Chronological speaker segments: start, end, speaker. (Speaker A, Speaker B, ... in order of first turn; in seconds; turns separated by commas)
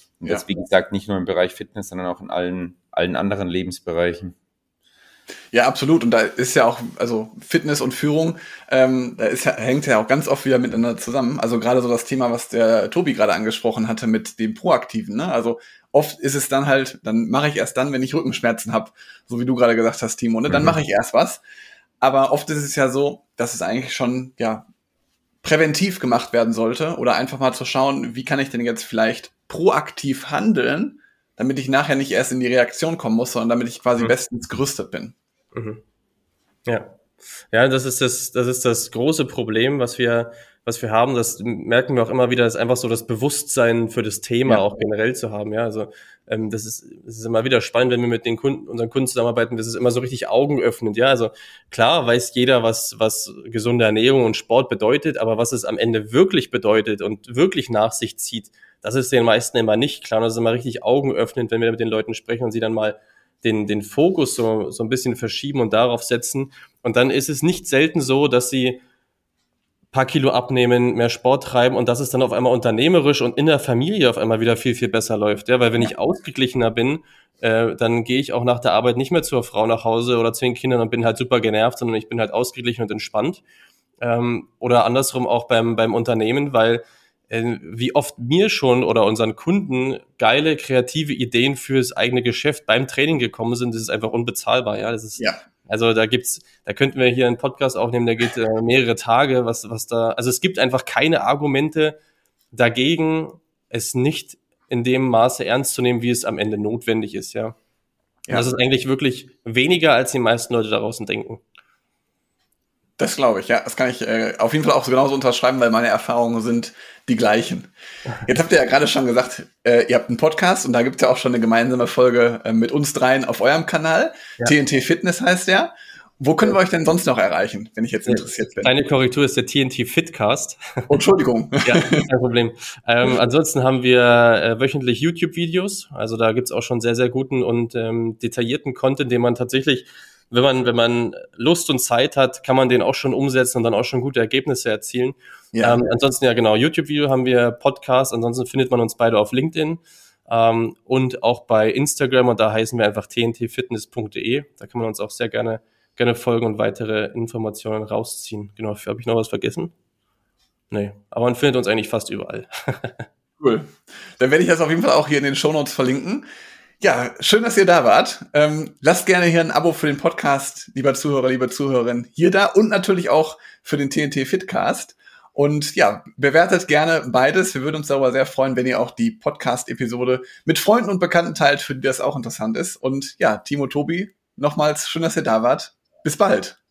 Speaker A: 0.2-4.3, Speaker B: 5.5-21.4, Speaker B: 22.0-24.7, Speaker B: 25.4-35.1, Speaker C: 35.5-35.8, Speaker C: 36.7-37.0, Speaker C: 37.5-68.8, Speaker C: 69.9-83.4, Speaker C: 84.0-102.0, Speaker C: 102.5-107.5, Speaker C: 108.3-111.4, Speaker B: 113.0-117.7, Speaker B: 118.2-128.7, Speaker C: 128.1-130.9, Speaker B: 130.9-132.1, Speaker C: 131.6-159.7, Speaker B: 145.5-145.8, Speaker C: 160.7-163.1, Speaker B: 163.4-166.3, Speaker B: 166.8-186.6